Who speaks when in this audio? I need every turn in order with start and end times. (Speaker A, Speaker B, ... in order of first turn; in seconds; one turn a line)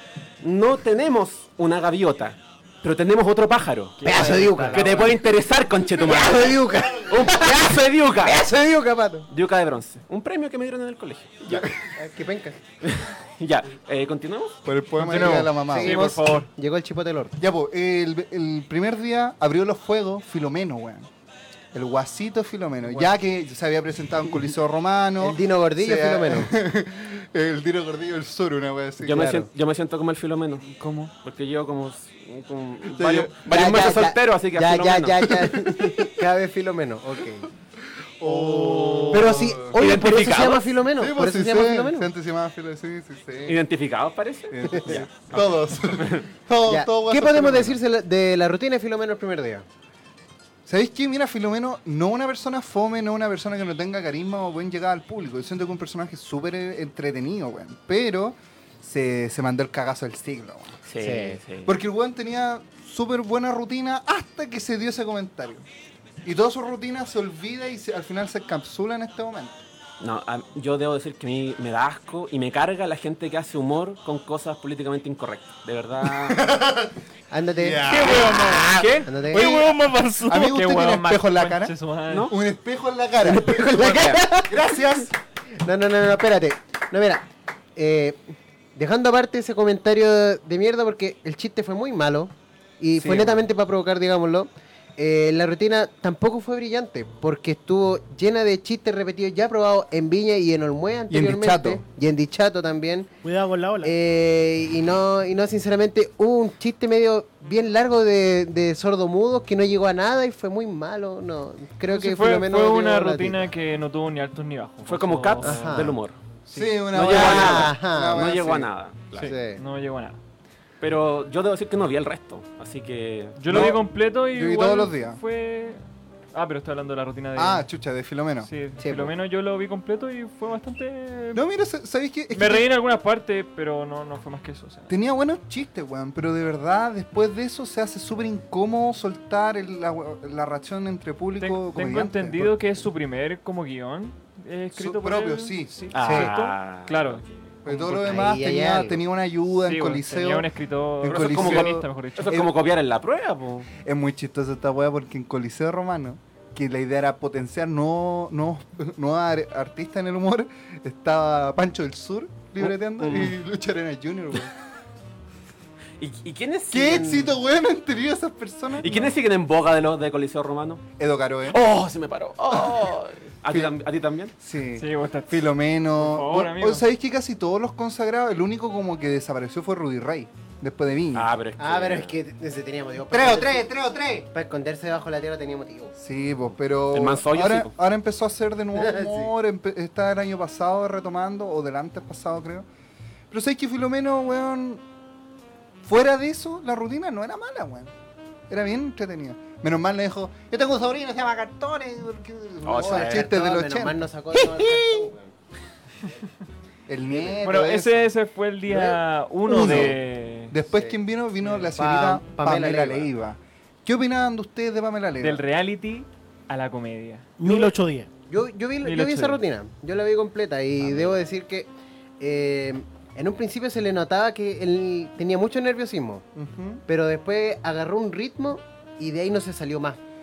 Speaker A: 0.4-8.5
Speaker B: 4.0-4.9
Speaker C: 4.0-5.2
Speaker C: 6.0-9.3
Speaker D: 6.9-7.2
Speaker A: 9.3-11.7
Speaker C: 11.5-12.6
Speaker A: 12.8-14.6
Speaker D: 14.7-16.2
Speaker B: 15.0-16.5
Speaker C: 15.2-17.4
Speaker D: 17.4-21.1
Speaker D: 21.7-29.4
Speaker C: 25.2-26.5
Speaker A: 29.0-30.6
Speaker C: 29.1-29.5
Speaker B: 30.7-31.1
Speaker A: 31.2-35.4
Speaker D: 32.9-33.4
Speaker C: 33.5-37.5
Speaker D: 35.5-36.0
Speaker D: 38.2-39.8
Speaker C: 38.2-42.1
Speaker A: 39.1-40.7
Speaker D: 41.0-43.6
Speaker A: 43.5-46.3
Speaker D: 44.5-47.8
Speaker C: 44.7-45.0
Speaker C: 46.7-49.6
Speaker D: 50.7-60.8
Speaker A: 60.9-61.8
Speaker C: 61.0-61.4
Speaker D: 61.6-65.7
Speaker D: 66.2-69.6
Speaker A: 70.0-76.4
Speaker D: 76.0-76.9
Speaker C: 77.3-78.0
Speaker D: 77.5-81.8
Speaker E: 77.9-78.8
Speaker A: 78.6-79.5
Speaker C: 79.0-79.5
Speaker E: 79.3-80.5
Speaker B: 80.3-82.3
Speaker A: 82.1-82.4
Speaker D: 82.3-83.4
Speaker C: 83.2-84.8
Speaker A: 83.4-84.2
Speaker D: 84.5-85.1
Speaker C: 85.6-87.2
Speaker C: 87.8-88.2
Speaker C: 88.8-103.1
Speaker A: 93.0-93.5
Speaker D: 101.1-101.8
Speaker E: 103.2-103.9
Speaker C: 103.8-113.5
Speaker B: 111.9-117.3
Speaker A: 114.8-116.2
Speaker C: 115.4-116.0
Speaker D: 116.5-118.7
Speaker A: 116.9-119.3
Speaker C: 117.0-118.3
Speaker B: 119.1-120.2
Speaker C: 119.1-119.6
Speaker A: 120.8-123.7
Speaker B: 123.4-125.8
Speaker D: 123.5-125.2
Speaker B: 126.3-127.7
Speaker D: 127.4-128.5
Speaker B: 128.4-131.4
Speaker C: 128.8-129.1
Speaker D: 131.3-132.7
Speaker B: 132.3-134.9
Speaker D: 134.9-142.6
Speaker B: 141.4-147.2
Speaker D: 144.8-146.3
Speaker A: 145.9-147.6
Speaker D: 147.7-150.5
Speaker C: 147.7-149.0
Speaker B: 149.7-152.4
Speaker D: 151.0-152.5
Speaker A: 151.1-153.7
Speaker D: 153.8-164.5
Speaker A: 162.6-163.4
Speaker A: 166.0-167.0
Speaker D: 166.7-169.1
Speaker C: 166.8-167.3
Speaker A: 168.8-170.8
Speaker D: 171.0-171.6
Speaker A: 171.5-174.3
Speaker D: 173.5-173.7
Speaker D: 174.4-181.3
Speaker B: 174.7-175.4
Speaker B: 176.0-176.8
Speaker A: 181.1-182.2
Speaker C: 181.6-183.7
Speaker D: 183.1-184.3
Speaker C: 184.3-185.9
Speaker D: 186.0-192.7
Speaker A: 186.9-187.7
Speaker C: 188.8-189.3
Speaker D: 193.3-194.8
Speaker D: 195.8-197.9
Speaker D: 198.5-204.9
Speaker A: 202.6-203.3
Speaker C: 202.7-205.3
Speaker D: 206.9-208.1
Speaker C: 207.1-207.4
Speaker B: 207.4-210.6
Speaker C: 208.7-209.0
Speaker D: 209.5-215.4
Speaker C: 209.6-209.9
Speaker C: 210.7-211.0
Speaker C: 211.6-213.1
Speaker B: 215.2-217.7
Speaker E: 217.4-218.1
Speaker C: 218.3-221.7
Speaker B: 218.8-219.4
Speaker C: 222.2-226.2
Speaker D: 226.3-226.8
Speaker C: 226.9-230.0